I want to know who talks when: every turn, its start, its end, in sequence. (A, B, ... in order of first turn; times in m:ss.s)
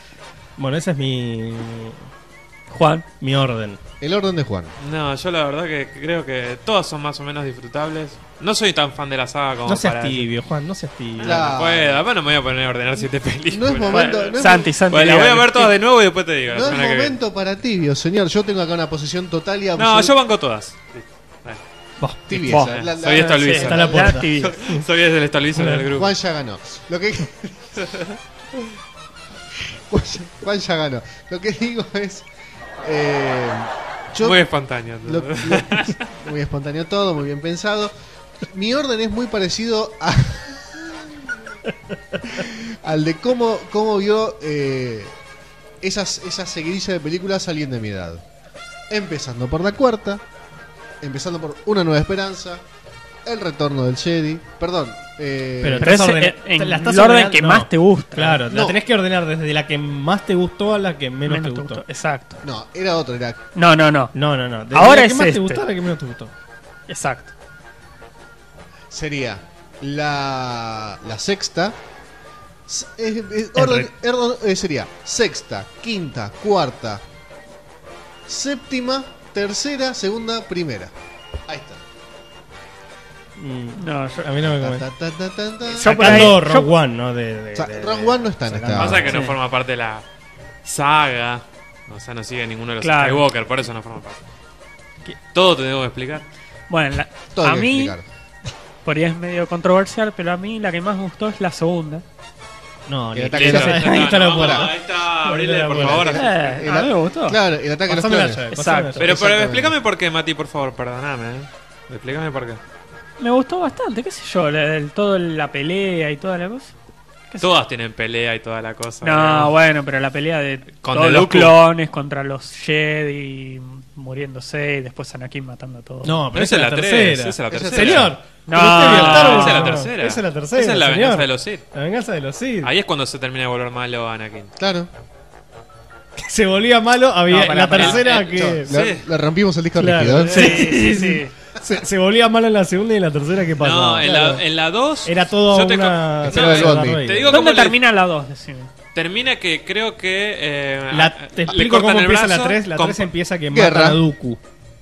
0:00.6-0:02.0 A
0:02.7-0:03.0 B
0:03.2-0:03.8 A
0:04.0-0:04.7 C
0:04.8-0:10.3 D
0:09.6-0:11.5 A
0:11.2-0:17.2 D
0:11.2-0:12.0 C
0:13.5-0:14.8 C
0:13.9-0:15.7 B
0:16.5-0:20.1 C
0:19.8-0:21.6 D
0:22.0-0:22.6 A
0:22.3-0:24.2 C
0:22.4-0:24.5 B
0:22.5-0:26.1 D
0:23.5-0:24.8 A
0:25.5-0:25.9 A
0:25.9-0:27.8 C
0:27.8-0:28.2 D
0:29.9-0:32.2 C
0:32.8-0:34.4 C
0:34.2-0:36.0 D
0:35.0-0:41.6 C
0:42.2-0:45.2 C
0:45.8-0:48.2 C
0:48.9-0:50.2 C
0:51.0-0:52.6 C
0:53.2-0:56.0 C
0:55.6-1:01.8 A
0:55.8-0:58.4 B
0:58.5-0:58.8 C
1:01.2-1:02.4 B
1:02.4-1:03.4 C
1:03.5-1:04.1 B
1:04.1-1:06.3 A
1:04.7-1:05.6 B
1:06.9-1:07.3 B
1:08.9-1:11.8 C
1:12.7-1:17.0 C
1:13.5-1:13.9 A
1:18.3-1:20.9 C
1:21.5-1:21.8 C
1:23.4-1:24.8 A
1:23.8-1:24.3 B
1:24.4-1:26.4 C
1:25.8-1:26.7 B
1:25.8-1:29.2 A
1:27.5-1:29.2 C
1:28.7-1:30.0 D
1:29.1-1:29.4 B
1:30.6-1:34.2 D
1:32.8-1:33.2 B
1:35.3-1:36.2 D
1:36.7-1:37.9 B
1:37.3-1:38.0 C
1:38.8-1:42.0 B
1:42.9-1:46.3 A
1:43.1-1:44.7 C
1:43.3-1:46.6 D
1:45.8-1:48.5 C
1:46.1-1:47.4 B
1:47.9-1:49.2 A
1:48.5-1:49.0 B
1:49.0-1:49.7 C
1:49.0-1:52.6 D
1:53.2-1:56.7 B
1:57.3-1:57.6 B
1:57.4-1:59.5 D
1:59.0-2:06.2 B
2:00.8-2:01.6 D
2:06.0-2:12.7 A
2:06.3-2:11.6 D
2:07.5-2:08.2 C
2:08.4-2:09.8 B
2:12.6-2:14.5 D
2:14.6-2:14.9 C
2:16.2-2:18.7 A
2:17.3-2:18.1 B
2:17.8-2:19.1 D
2:18.2-2:20.5 C
2:19.8-2:24.4 A
2:20.2-2:20.6 D
2:20.3-2:21.3 B
2:23.6-2:27.8 D
2:25.0-2:27.4 A
2:26.2-2:27.0 C
2:27.3-2:28.7 B
2:28.9-2:33.1 D
2:30.9-2:34.4 A
2:33.5-2:34.0 C